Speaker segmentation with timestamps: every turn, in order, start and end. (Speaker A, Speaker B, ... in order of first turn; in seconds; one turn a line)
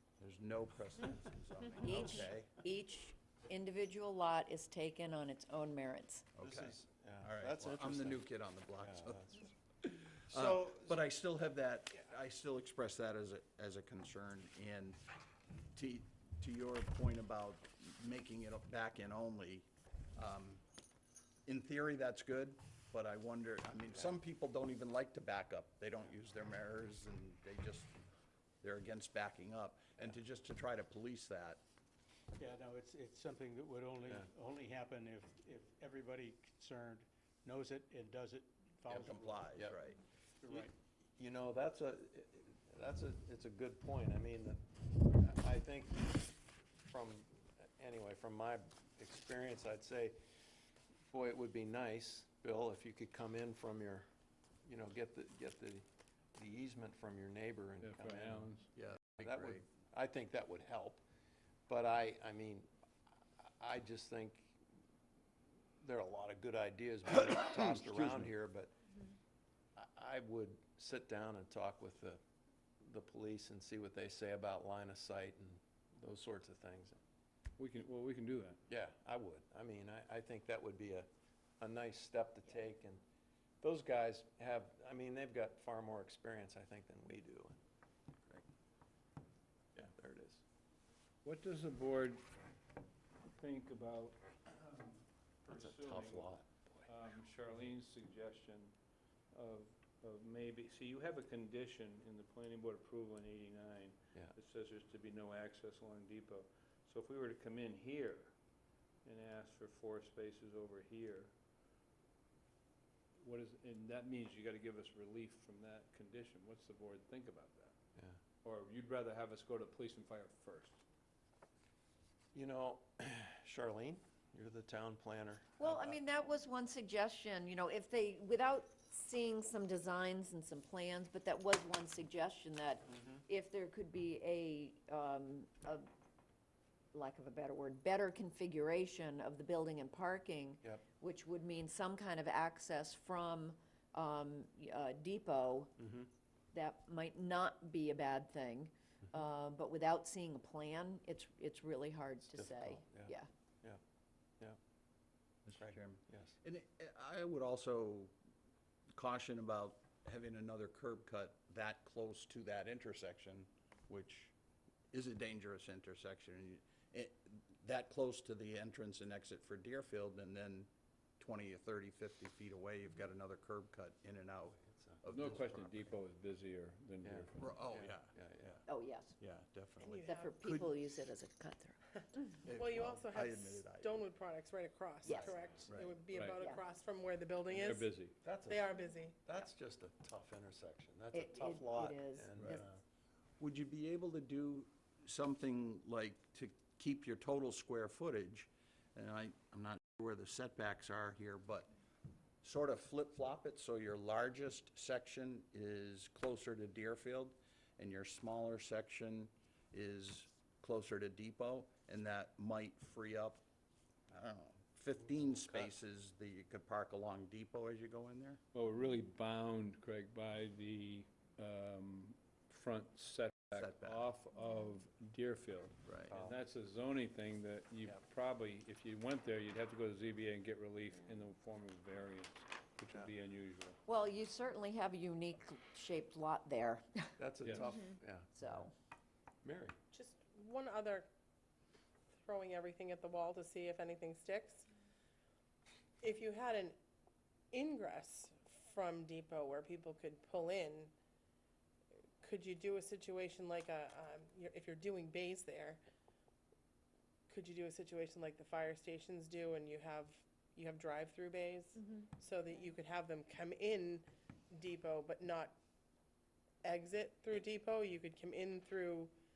Speaker A: 0.2-2.6
Speaker B: 1.8-6.3
Speaker A: 6.3-9.3
Speaker C: 6.4-8.2
Speaker C: 8.8-9.5
Speaker A: 10.1-15.0
Speaker C: 10.3-11.0
Speaker A: 15.7-20.6
Speaker A: 21.4-27.9
Speaker A: 28.6-31.6
Speaker D: 32.4-39.7
Speaker C: 38.9-39.8
Speaker A: 38.9-40.0
Speaker D: 40.4-40.7
Speaker C: 40.5-46.3
Speaker C: 46.9-50.2
Speaker C: 51.1-54.0
Speaker C: 54.6-58.6
Speaker E: 57.8-58.7
Speaker A: 58.7-59.6
Speaker C: 59.2-61.0
Speaker C: 61.7-62.7
Speaker C: 63.4-64.5
Speaker C: 65.8-68.8
Speaker A: 67.8-68.2
Speaker C: 69.8-72.2
Speaker C: 72.8-77.0
Speaker E: 77.6-78.6
Speaker C: 78.7-81.1
Speaker C: 81.6-83.0
Speaker C: 83.6-87.6
Speaker C: 89.7-90.4
Speaker E: 91.2-92.2
Speaker E: 93.2-98.7
Speaker C: 95.5-96.9
Speaker E: 99.3-108.3
Speaker E: 109.0-111.3
Speaker E: 113.2-117.7
Speaker E: 118.4-120.8
Speaker C: 122.3-126.0
Speaker B: 125.6-135.9
Speaker C: 132.9-133.2
Speaker B: 136.9-145.7
Speaker C: 145.8-146.1
Speaker B: 146.5-153.3
Speaker C: 152.3-153.8
Speaker A: 155.5-158.1
Speaker C: 155.5-156.3
Speaker A: 158.9-164.3
Speaker A: 164.9-175.9
Speaker C: 174.6-175.0
Speaker E: 175.1-177.4
Speaker C: 177.0-178.6
Speaker A: 177.4-178.6
Speaker B: 178.7-179.2
Speaker A: 179.2-180.7
Speaker F: 179.8-180.3
Speaker B: 180.0-181.8
Speaker A: 182.4-184.0
Speaker F: 182.5-189.4
Speaker B: 185.0-185.4
Speaker A: 185.7-185.9
Speaker E: 186.1-186.4
Speaker E: 187.5-188.1
Speaker C: 188.2-192.8
Speaker B: 191.1-192.7
Speaker A: 193.4-201.7
Speaker A: 202.4-213.4
Speaker A: 214.1-218.4
Speaker E: 218.5-233.8
Speaker A: 223.5-224.1
Speaker A: 225.8-226.1
Speaker C: 226.1-226.4
Speaker B: 233.8-237.2
Speaker C: 237.2-238.7
Speaker E: 237.4-237.7
Speaker B: 238.3-238.7
Speaker C: 239.4-239.8
Speaker F: 239.9-241.1
Speaker F: 242.1-244.7
Speaker F: 246.0-246.8
Speaker F: 247.5-250.9
Speaker F: 252.2-255.8
Speaker F: 257.3-265.6
Speaker F: 266.6-269.1